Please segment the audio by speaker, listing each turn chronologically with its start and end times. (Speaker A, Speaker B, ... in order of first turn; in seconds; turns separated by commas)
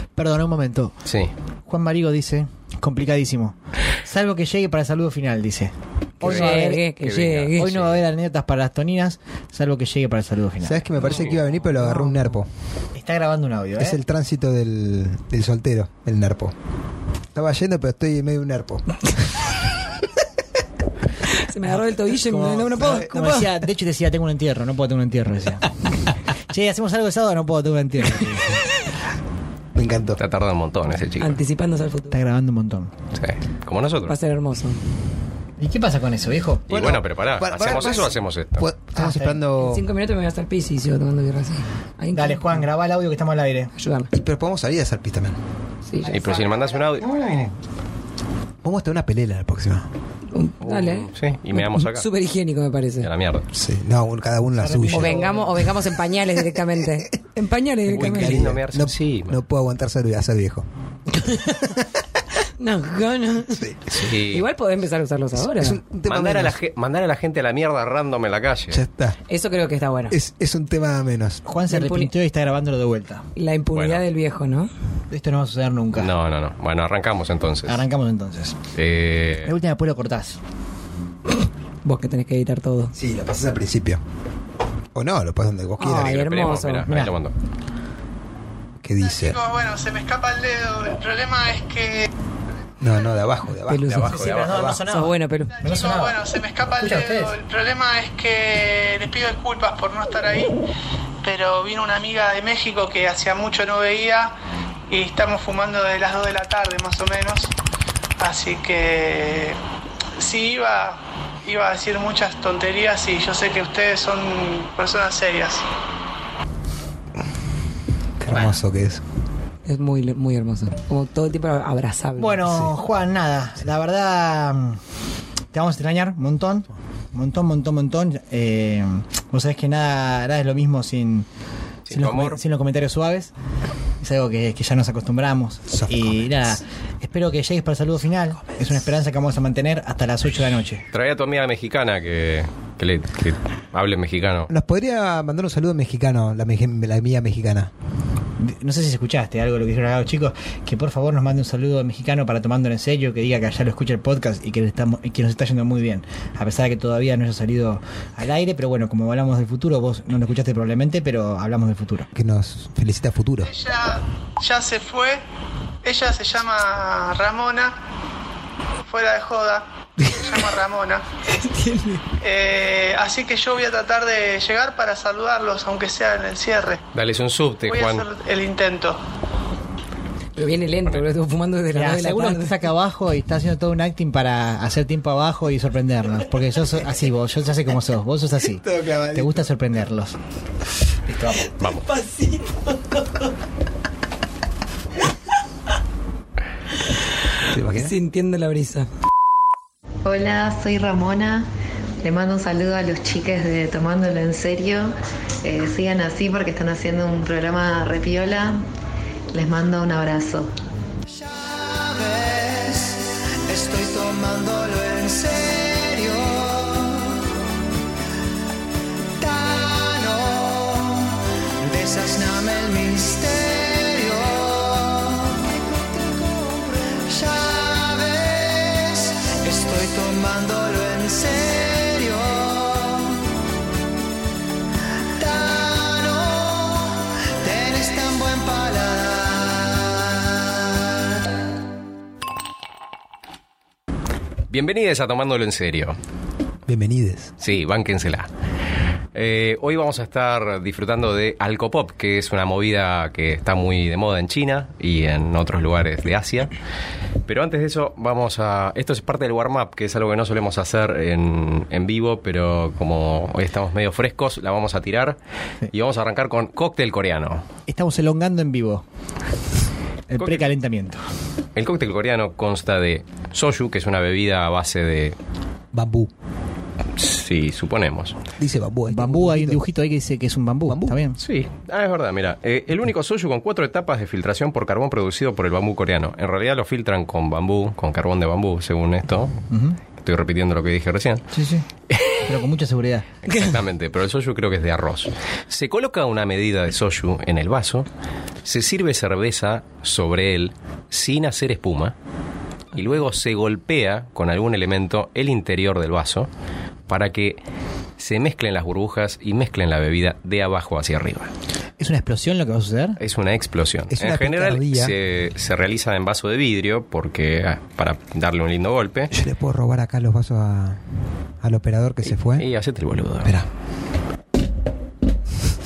Speaker A: 0.1-0.9, Speaker B: 1.1-1.3, Speaker A: 1.7-6.8, Speaker B: 6.2-8.0, Speaker C: 6.2-7.7, Speaker A: 7.6-10.8, Speaker D: 10.6-12.5, Speaker B: 11.1-11.4, Speaker A: 11.8-12.2, Speaker A: 12.9-14.0, Speaker D: 13.8-16.5, Speaker D: 17.3-19.0, Speaker C: 21.3-23.4, Speaker A: 22.1-25.7, Speaker D: 22.7-23.6, Speaker A: 26.5-28.6, Speaker D: 29.7-30.2, Speaker B: 30.2-31.4, Speaker C: 31.2-32.2, Speaker A: 32.1-32.9, Speaker B: 33.1-34.1, Speaker C: 34.1-34.8, Speaker A: 35.6-36.6, Speaker B: 36.7-38.6, Speaker D: 36.7-39.8, Speaker A: 38.9-39.4, Speaker C: 39.6-42.5, Speaker A: 42.1-43.7, Speaker C: 43.8-44.1, Speaker D: 44.1-45.4, Speaker C: 45.9-46.5, Speaker B: 46.1-47.1, Speaker D: 47.0-47.5, Speaker D: 48.6-49.9, Speaker C: 50.3-53.1, Speaker B: 50.6-52.1, Speaker B: 53.0-53.5, Speaker D: 53.5-55.4, Speaker A: 54.6-55.5, Speaker C: 54.8-58.4, Speaker B: 57.9-59.4, Speaker D: 57.9-60.6, Speaker C: 61.2-61.6, Speaker C: 62.6-65.8, Speaker D: 63.5-64.2, Speaker B: 63.9-64.5, Speaker D: 65.4-66.6, Speaker B: 66.1-68.8, Speaker D: 68.7-69.2, Speaker C: 69.3-70.2, Speaker D: 70.1-71.4, Speaker A: 71.5-73.2, Speaker C: 71.7-72.1, Speaker C: 73.3-74.7, Speaker B: 73.7-74.0, Speaker A: 75.1-76.1, Speaker B: 76.0-77.8, Speaker A: 77.7-78.5, Speaker B: 78.7-79.5, Speaker A: 79.5-80.4, Speaker C: 81.8-82.9, Speaker D: 83.0-84.0, Speaker D: 84.9-86.3, Speaker C: 85.8-86.8, Speaker B: 85.9-87.3, Speaker A: 86.9-87.1, Speaker D: 88.8-89.4, Speaker E: 89.0-92.1, Speaker D: 92.8-94.8, Speaker C: 93.7-95.6, Speaker B: 93.8-94.8, Speaker A: 94.1-96.2, Speaker E: 95.6-100.5, Speaker A: 96.8-97.3, Speaker E: 101.2-104.3, Speaker E: 104.9-107.5, Speaker E: 108.2-109.6, Speaker E: 110.2-115.6, Speaker D: 118.2-119.0, Speaker C: 119.6-122.4, Speaker A: 122.2-124.8, Speaker D: 122.5-122.7, Speaker A: 125.5-131.3, Speaker B: 131.8-132.4, Speaker A: 131.9-133.3, Speaker A: 134.0-140.8, Speaker D: 135.7-136.3, Speaker B: 140.9-144.5, Speaker D: 144.5-147.7, Speaker A: 148.4-162.1, Speaker D: 162.1-163.5, Speaker E: 163.4-165.2, Speaker E: 165.8-167.8, Speaker E: 168.8-171.0, Speaker C: 171.3-172.0, Speaker E: 172.2-176.8, Speaker B: 176.9-178.1, Speaker E: 177.7-179.0, Speaker C: 180.3-182.6, Speaker A: 181.7-190.2, Speaker D: 188.5-189.5, Speaker A: 191.1-191.6, Speaker C: 191.6-193.3, Speaker B: 191.6-191.8, Speaker D: 197.5-197.9, Speaker C: 197.7-198.9, Speaker F: 200.0-201.5, Speaker F: 202.0-208.6, Speaker F: 209.3-210.5, Speaker G: 211.1-217.2, Speaker G: 219.2-233.2, Speaker G: 235.2-240.8, Speaker B: 244.5-246.0, Speaker D: 246.7-247.3, Speaker B: 247.4-248.3, Speaker B: 249.1-256.5, Speaker B: 257.2-265.2, Speaker B: 265.7-267.4, Speaker A: 267.7-268.8, Speaker A: 270.1-271.0, Speaker B: 270.2-270.5, Speaker B: 271.6-275.1, Speaker D: 275.7-276.1, Speaker B: 277.0-278.2, Speaker D: 278.4-279.6, Speaker A: 278.9-281.2, Speaker D: 280.7-281.0, Speaker B: 281.2-289.4, Speaker A: 289.5-289.8, Speaker B: 290.0-291.2, Speaker A: 291.3-293.1, Speaker B: 293.2-297.9, Speaker B: 298.4-301.9, Speaker B: 302.7-306.3, Speaker B: 306.9-307.4, Speaker B: 308.0-311.3, Speaker A: 311.8-313.0, Speaker B: 313.0-319.1, Speaker D: 313.9-314.9, Speaker D: 319.1-320.8, Speaker D: 321.4-322.4, Speaker B: 322.3-323.4